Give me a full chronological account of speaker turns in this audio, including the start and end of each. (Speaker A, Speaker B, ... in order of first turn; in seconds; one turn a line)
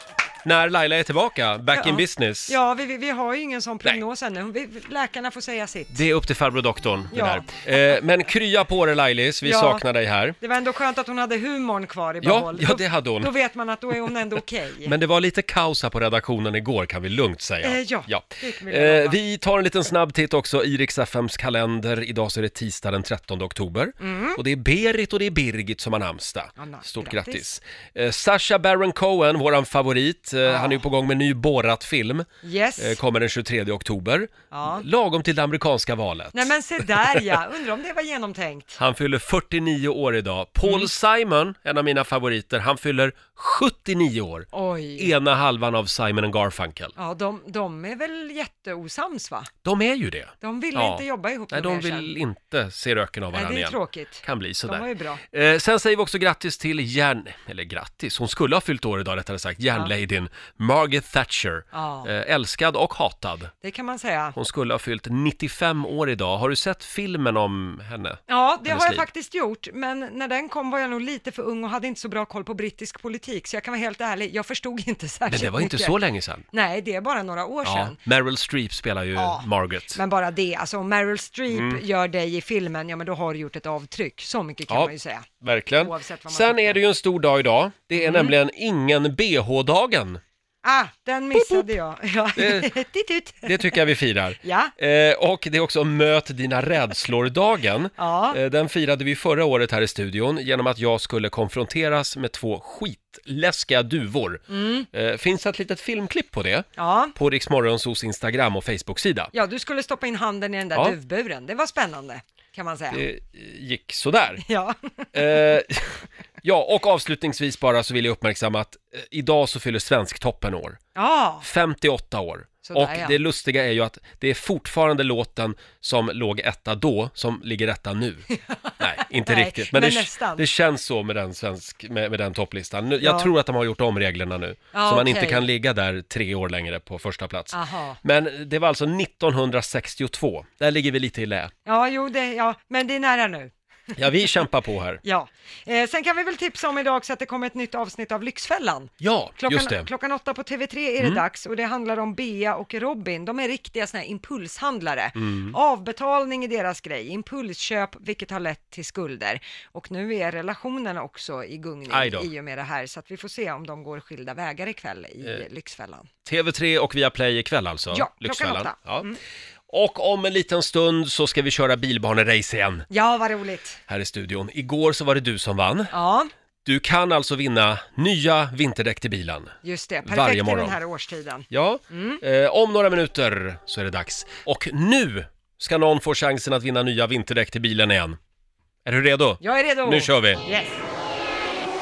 Speaker A: 0.4-2.6
Speaker B: 1.7-6.0
Speaker A: 5.9-10.4
Speaker B: 7.1-7.5
Speaker B: 9.4-9.8
Speaker B: 10.4-15.0
Speaker A: 12.2-13.3
Speaker A: 14.8-36.5
Speaker B: 17.6-19.2
Speaker B: 24.0-24.4
Speaker B: 26.6-27.4
Speaker B: 30.4-30.8
Speaker B: 32.4-33.0
Speaker B: 34.5-34.9
Speaker B: 36.3-38.8
Speaker A: 38.8-47.0
Speaker B: 40.6-40.9
Speaker B: 44.5-45.1
Speaker B: 47.0-49.5
Speaker A: 49.6-63.5
Speaker B: 50.4-52.1
Speaker B: 53.3-55.2
Speaker B: 61.7-62.1
Speaker B: 63.6-64.4
Speaker A: 64.4-69.0
Speaker B: 68.3-76.0
Speaker A: 75.3-76.5
Speaker B: 76.5-78.0
Speaker A: 77.7-80.0
Speaker B: 79.2-86.8
Speaker A: 81.5-81.8
Speaker A: 84.7-90.2
Speaker B: 88.0-88.3
Speaker B: 90.6-93.9
Speaker A: 91.3-91.6
Speaker A: 92.4-92.7
Speaker A: 93.4-109.3
Speaker B: 94.4-94.7
Speaker B: 98.0-98.4
Speaker B: 104.5-104.9
Speaker B: 106.8-107.2
Speaker B: 109.3-113.0
Speaker A: 112.9-114.4
Speaker B: 114.4-115.6
Speaker A: 115.1-120.8
Speaker B: 121.0-121.5
Speaker A: 121.4-128.3
Speaker B: 122.6-123.2
Speaker B: 128.3-130.5
Speaker A: 128.8-141.5
Speaker B: 133.0-133.3
Speaker B: 134.7-135.5
Speaker B: 137.5-138.0
Speaker B: 141.7-144.0
Speaker A: 144.0-145.0
Speaker B: 145.0-166.1
Speaker A: 149.0-149.9
Speaker A: 155.2-155.6
Speaker A: 161.9-162.3
Speaker A: 166.2-169.1
Speaker B: 167.9-169.2
Speaker A: 169.7-172.9
Speaker B: 172.9-173.8
Speaker A: 173.9-175.9
Speaker B: 175.9-176.3
Speaker A: 176.7-180.8
Speaker B: 179.6-182.2
Speaker A: 181.5-188.2
Speaker A: 188.8-190.4
Speaker B: 189.4-190.8